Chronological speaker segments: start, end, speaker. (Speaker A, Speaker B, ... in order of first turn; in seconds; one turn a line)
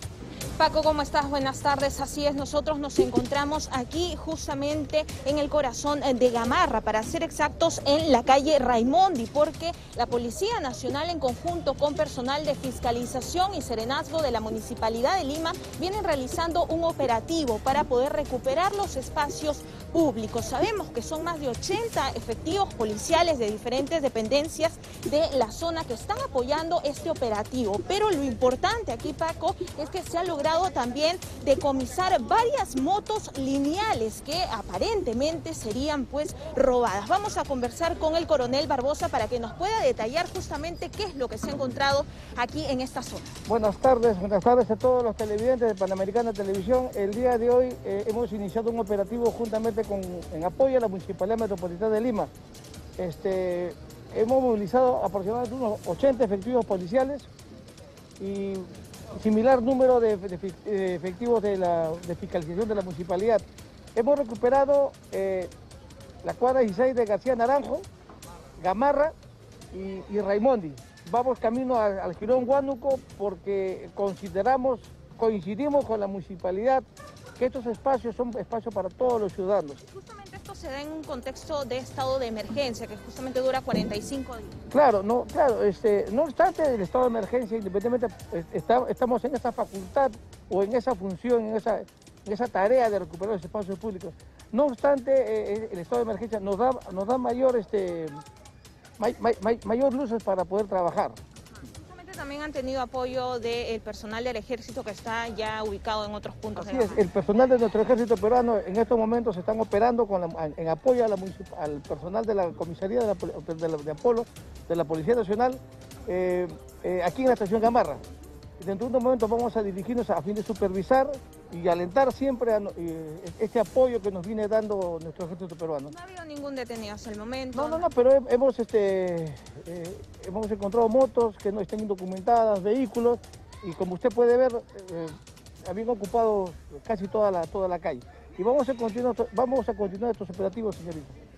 Speaker A: 0.6-43.4
Speaker B: 43.5-52.3
Speaker B: 53.0-57.3
Speaker B: 58.2-65.5
Speaker B: 66.2-67.8
Speaker B: 68.6-69.1
Speaker B: 69.7-76.8
Speaker B: 77.4-79.8
Speaker A: 79.9-84.6
Speaker B: 84.7-98.2
Speaker B: 99.0-101.2
Speaker A: 101.6-107.0
Speaker B: 106.5-118.0
Speaker B: 118.6-125.9
Speaker A: 125.9-127.9
Speaker B: 127.5-141.2